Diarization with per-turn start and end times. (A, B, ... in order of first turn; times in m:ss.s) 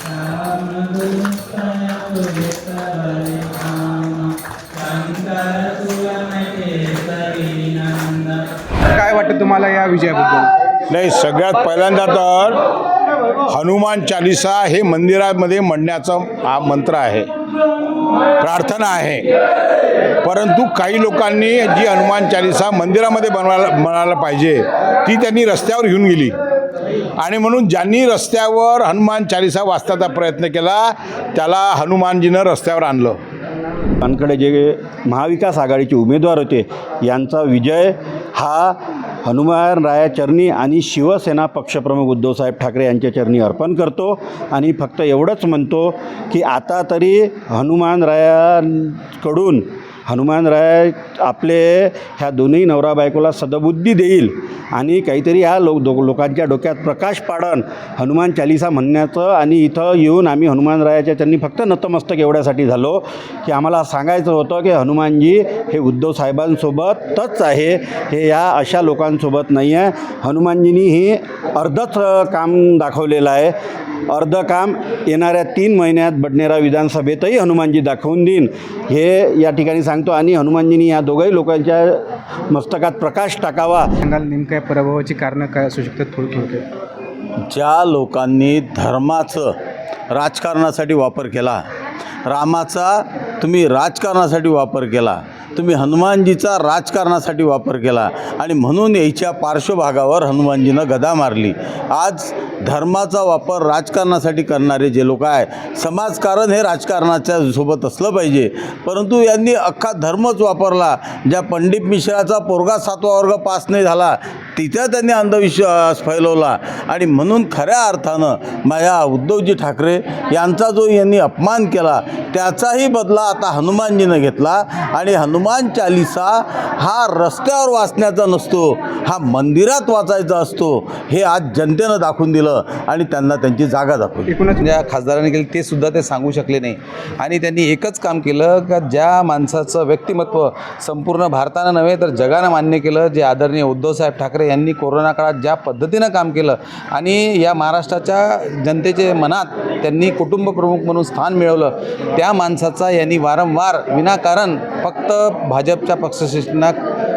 0:00.3-0:00.9 A
0:05.1-0:08.2 A
0:08.8-0:10.5 B
0:10.9-0:12.6 C
0:13.5-0:17.3 C
0:18.4-0:19.3 C
0:20.2-0:26.4 C
0:27.2-0:33.2 C
0:34.0-1:13.5 D
1:14.1-1:23.9 D
1:24.0-1:26.6 B
1:27.5-1:29.6 E
1:30.1-1:31.6 E
1:32.2-2:14.3 E
2:14.3-2:14.6 B
2:14.6-2:36.8 A